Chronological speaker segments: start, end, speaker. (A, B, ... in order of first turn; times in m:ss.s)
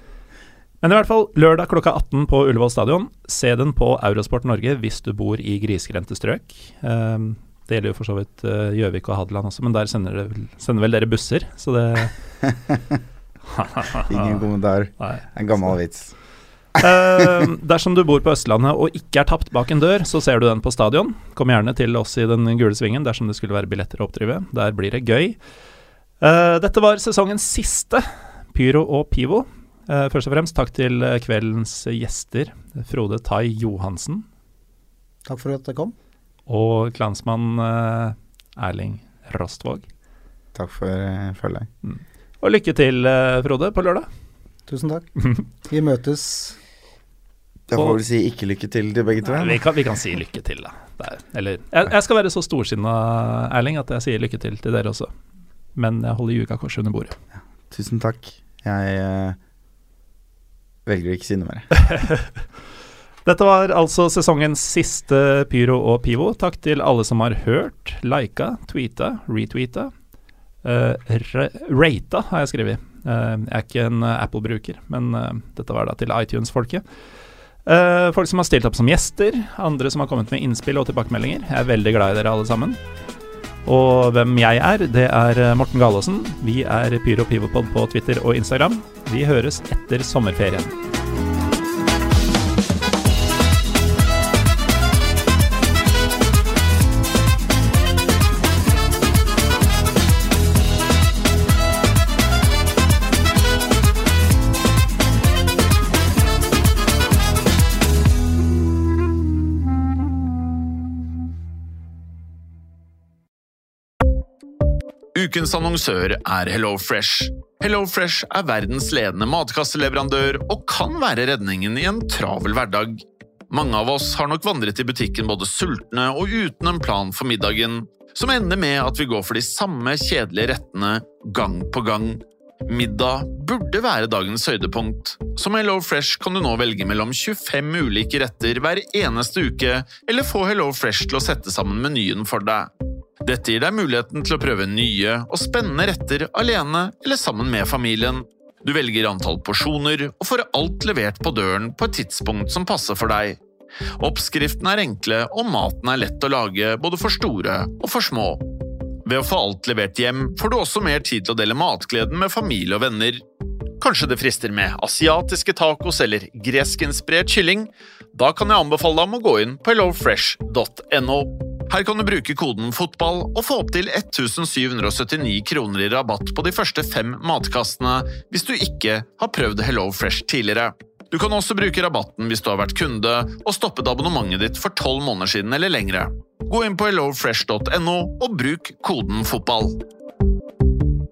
0:00.8-0:12.2 A
0:13.5-0:14.4 A
0:14.0-0:16.1 B
0:15.0-0:15.3 A
0:16.8-0:25.4 A
0:26.2-0:34.2 A
0:35.3-0:35.9 C
0:36.5-0:39.9 A
0:40.5-0:41.7 B
0:41.8-0:44.1 A
0:44.7-0:45.1 C
0:45.7-0:46.6 C
0:47.7-0:49.6 B
0:49.2-0:55.1 A
0:55.8-0:57.2 A
0:57.7-0:59.4 B
1:00.9-1:01.7 B
1:01.8-1:02.4 A
1:03.2-1:09.9 A
1:10.6-1:16.8 A
1:17.7-1:22.8 A
1:23.7-1:30.7 A
1:55.2-2:22.7 D
2:23.2-2:33.4 D
2:34.0-2:38.4 D
2:39.1-2:43.2 D
2:43.8-3:09.8 D